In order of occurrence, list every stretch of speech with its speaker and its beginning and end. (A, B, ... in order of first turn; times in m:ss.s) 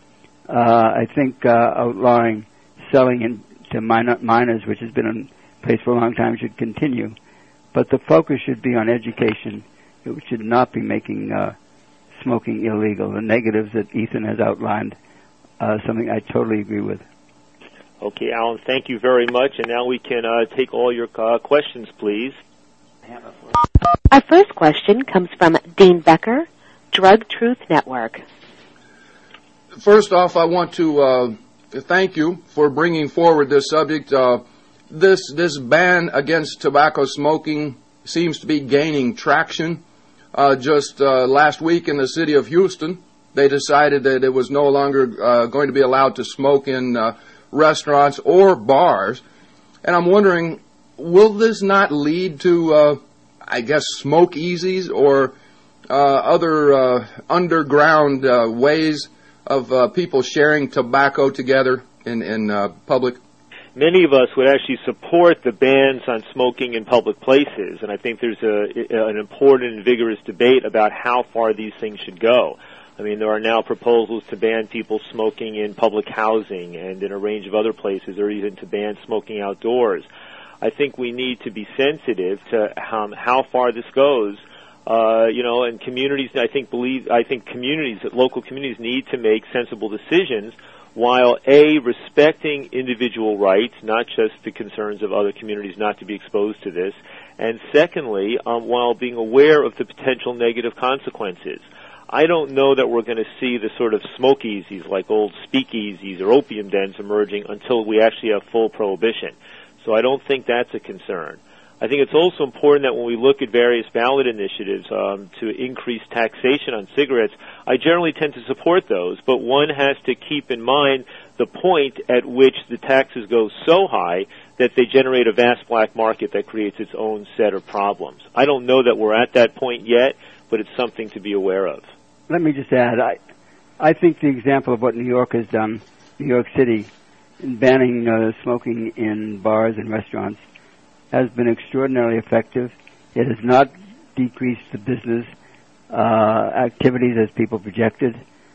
0:00.5-0:07.2 A
0:07.7-0:11.6 A
0:12.2-0:15.0 A
0:15.6-0:17.0 A
0:18.0-0:22.4 B
0:24.1-0:28.2 C
0:29.8-0:39.8 D
0:40.3-0:49.2 D
0:49.8-0:55.4 D
0:55.9-1:03.2 D
1:03.8-1:20.1 B
1:20.6-2:11.9 B
2:12.3-2:13.2 A
2:13.8-2:20.4 A
2:21.1-2:25.3 A
2:25.9-2:28.2 A